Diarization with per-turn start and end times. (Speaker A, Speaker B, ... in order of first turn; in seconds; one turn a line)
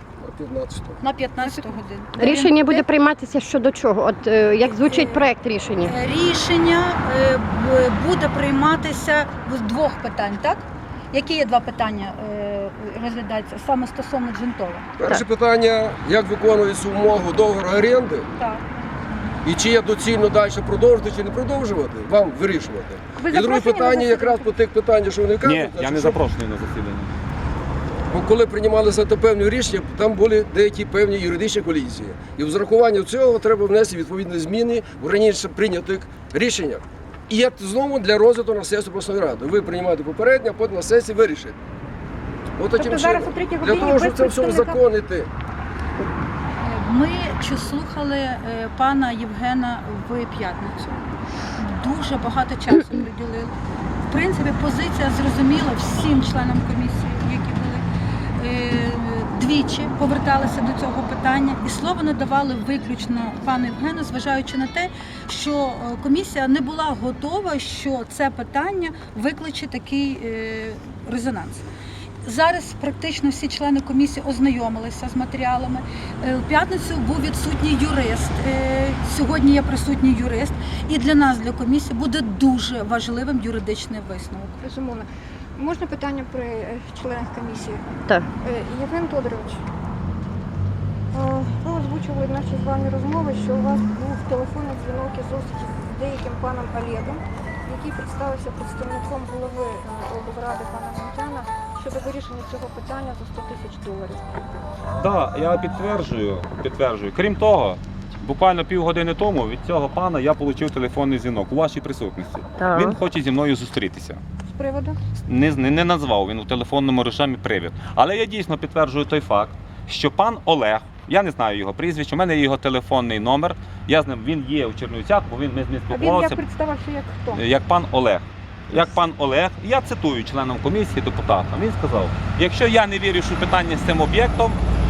Speaker A: 0.2-1.0
Speaker B: 1.0-2.9
Speaker C: 1.4-2.4
Speaker D: 2.2-5.9
Speaker B: 4.6-5.3
Speaker B: 5.8-14.9
Speaker A: 15.0-18.3
Speaker B: 18.4-18.6
Speaker A: 19.4-26.2
Speaker C: 23.2-24.6
Speaker E: 25.4-27.1
Speaker A: 28.1-41.6
Speaker A: 42.6-45.3
Speaker C: 42.8-44.8
Speaker B: 46.6-53.5
Speaker B: 54.1-57.8
Speaker B: 58.4-71.7
Speaker B: 72.2-84.6
Speaker C: 84.6-85.0
Speaker C: 85.6-87.8
Speaker C: 88.4-89.6
Speaker C: 91.1-104.6
Speaker E: 105.0-114.2
Speaker D: 112.6-113.0
Speaker C: 114.5-115.0
Speaker E: 115.2-126.4
Speaker C: 125.9-127.4
Speaker E: 127.3-134.6